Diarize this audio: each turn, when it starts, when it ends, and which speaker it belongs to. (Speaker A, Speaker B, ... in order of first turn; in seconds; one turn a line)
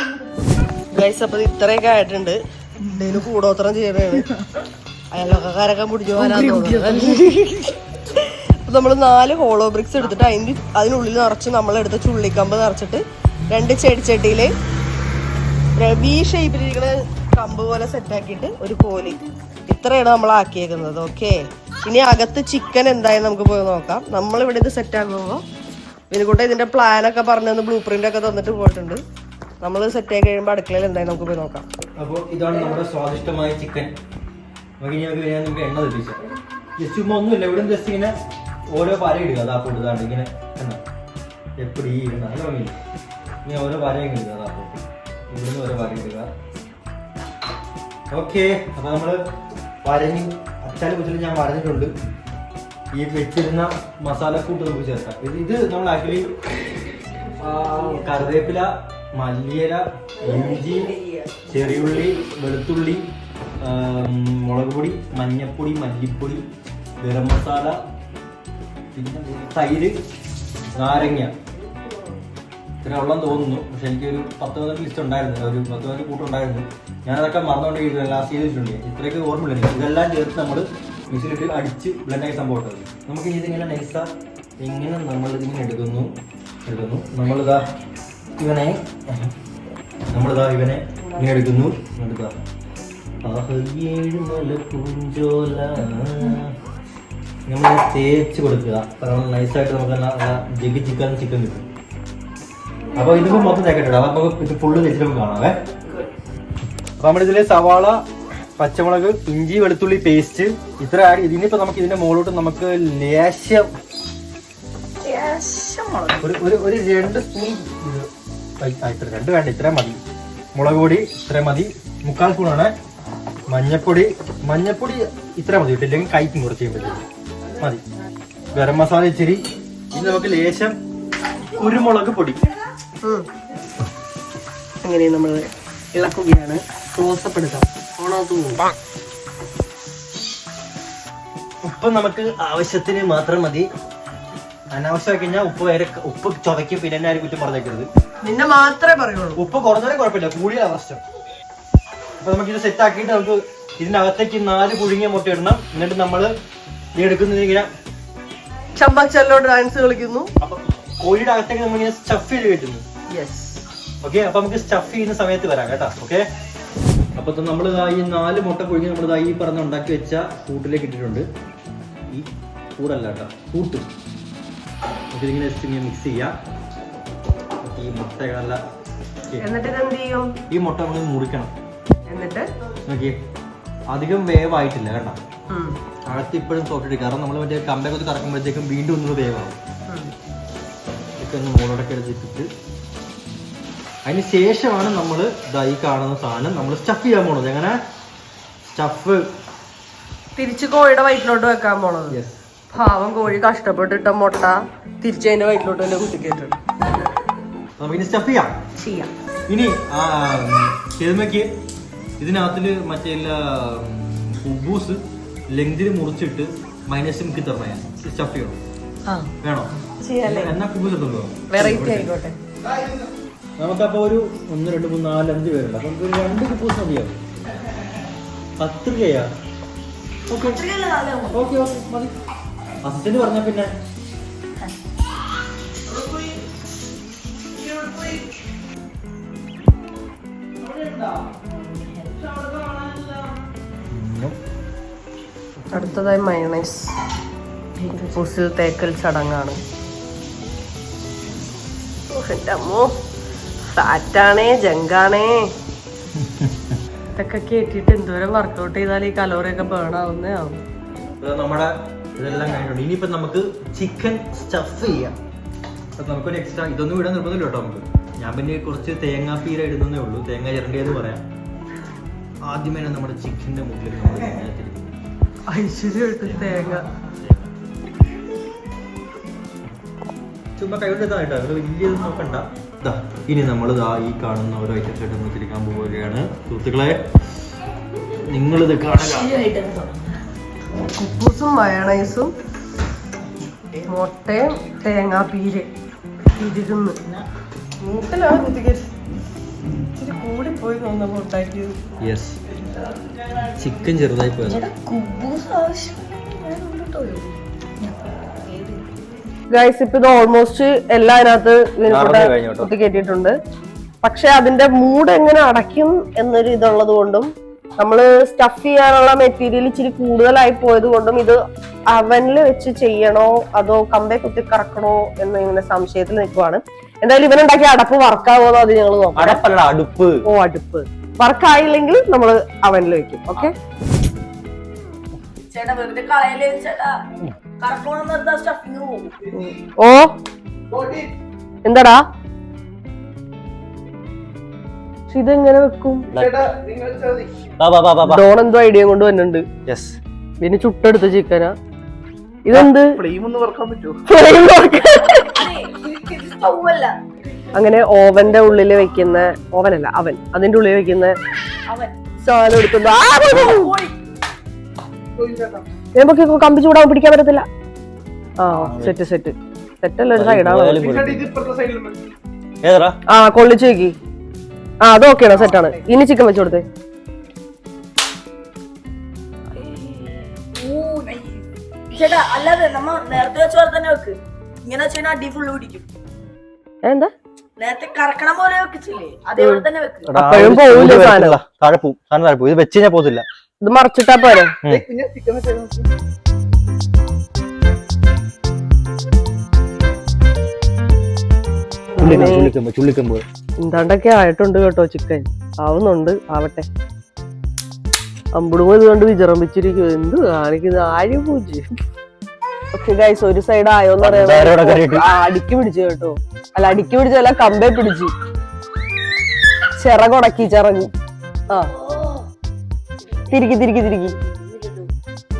Speaker A: 0.9-4.3
Speaker A: 5.1-14.5
Speaker A: 15.8-25.4
Speaker A: 26.1-29.0
Speaker A: 29.6-31.6
Speaker B: 32.0-33.9
Speaker B: 34.8-36.2
Speaker B: 36.8-38.1
Speaker B: 38.7-40.8
Speaker B: 41.6-42.7
Speaker B: 43.4-46.3
Speaker B: 48.1-49.2
Speaker B: 49.8-51.9
Speaker B: 52.9-56.3
Speaker B: 57.4-61.0
Speaker C: 60.3-61.2
Speaker B: 61.5-63.1
Speaker B: 63.6-66.5
Speaker B: 67.0-67.8
Speaker B: 68.9-70.0
Speaker B: 70.7-71.3
Speaker B: 72.8-84.1
Speaker B: 84.6-86.1
Speaker B: 86.7-87.7
Speaker B: 88.4-89.3
Speaker B: 90.1-92.3
Speaker B: 93.2-96.5
Speaker B: 97.5-101.7
Speaker B: 102.9-105.6
Speaker B: 107.0-108.0
Speaker B: 108.6-113.7
Speaker C: 115.0-116.2
Speaker B: 116.2-118.1
Speaker B: 118.6-120.0
Speaker B: 120.5-122.7
Speaker B: 123.5-127.0
Speaker B: 128.5-130.7
Speaker B: 131.4-132.4
Speaker A: 134.8-138.7
Speaker B: 141.7-143.7
Speaker B: 144.7-147.9
Speaker A: 148.2-149.4
Speaker B: 149.4-151.0
Speaker B: 152.2-156.3
Speaker B: 157.0-157.7
Speaker A: 158.8-160.3
Speaker B: 160.4-162.8
Speaker A: 163.1-163.6
Speaker B: 164.0-166.2
Speaker B: 167.2-171.2
Speaker B: 172.1-173.9
Speaker B: 175.1-176.3
Speaker B: 177.6-178.6
Speaker B: 179.3-179.6
Speaker A: 179.4-180.3
Speaker B: 180.5-181.5
Speaker A: 182.1-182.5
Speaker B: 182.9-183.2
Speaker B: 183.9-185.2
Speaker A: 185.5-185.8
Speaker B: 186.1-189.6
Speaker B: 191.2-192.5
Speaker B: 194.0-197.8
Speaker B: 198.6-199.3
Speaker A: 200.3-202.2
Speaker B: 202.1-202.4
Speaker A: 202.7-206.6
Speaker B: 207.8-208.5
Speaker A: 208.8-209.1
Speaker B: 209.5-211.5
Speaker B: 212.2-218.6
Speaker A: 219.1-220.5
Speaker B: 219.4-222.1
Speaker A: 221.5-222.4
Speaker B: 223.6-227.2
Speaker B: 228.6-229.3
Speaker B: 230.3-230.6
Speaker C: 230.4-231.4
Speaker B: 231.3-232.1
Speaker B: 232.8-233.7
Speaker D: 237.6-238.1
Speaker D: 240.6-241.4
Speaker C: 241.5-242.3
Speaker D: 242.3-243.1
Speaker B: 243.9-244.3
Speaker A: 245.7-246.9
Speaker C: 247.8-248.2
Speaker A: 247.9-249.6
Speaker A: 252.1-252.9
Speaker A: 253.7-255.5
Speaker B: 256.1-256.8
Speaker A: 257.1-260.6
Speaker B: 261.2-265.1
Speaker B: 265.9-271.2
Speaker B: 272.4-274.9
Speaker A: 275.5-276.9
Speaker B: 276.2-277.5
Speaker B: 280.6-287.0
Speaker B: 288.1-289.3
Speaker C: 288.9-290.2
Speaker A: 290.9-292.3
Speaker A: 293.9-295.7
Speaker A: 296.4-297.0
Speaker A: 297.8-298.9
Speaker A: 299.7-301.8
Speaker B: 302.0-302.4
Speaker B: 303.4-304.7
Speaker A: 304.6-307.3
Speaker C: 304.9-305.2
Speaker C: 305.8-306.1
Speaker C: 308.5-308.9
Speaker A: 309.5-313.3
Speaker B: 311.9-312.7
Speaker A: 314.0-321.4
Speaker A: 321.9-329.4
Speaker B: 329.1-330.2
Speaker A: 330.3-333.5
Speaker C: 335.4-337.0
Speaker C: 337.6-339.1
Speaker A: 339.4-340.1
Speaker D: 340.7-341.1
Speaker A: 341.6-342.0
Speaker A: 345.1-346.1
Speaker B: 346.1-346.4
Speaker D: 346.1-347.3
Speaker B: 347.6-348.2
Speaker A: 348.0-349.4
Speaker B: 349.7-350.0
Speaker A: 350.4-351.5
Speaker A: 352.4-353.0
Speaker D: 352.9-354.0
Speaker A: 354.1-355.2
Speaker C: 355.2-356.9
Speaker A: 357.5-361.1
Speaker C: 361.7-361.9
Speaker A: 362.2-363.7
Speaker C: 363.3-364.0
Speaker D: 365.1-365.6
Speaker A: 365.9-367.4
Speaker A: 368.4-370.9
Speaker B: 368.5-369.0
Speaker B: 370.1-371.3
Speaker D: 370.8-372.0
Speaker B: 372.6-372.9
Speaker A: 373.1-373.9
Speaker A: 374.8-376.6
Speaker C: 379.5-385.8
Speaker A: 386.8-387.1
Speaker C: 387.6-390.1
Speaker A: 389.4-391.4
Speaker B: 390.1-393.2
Speaker A: 393.6-394.5
Speaker D: 394.6-395.9
Speaker A: 401.9-402.5
Speaker B: 402.0-403.2
Speaker A: 403.6-406.7
Speaker A: 408.3-411.6
Speaker A: 412.7-418.1
Speaker B: 414.0-415.0
Speaker A: 419.8-420.9
Speaker C: 421.6-422.3
Speaker C: 423.2-423.6
Speaker A: 423.3-424.1
Speaker C: 424.1-424.9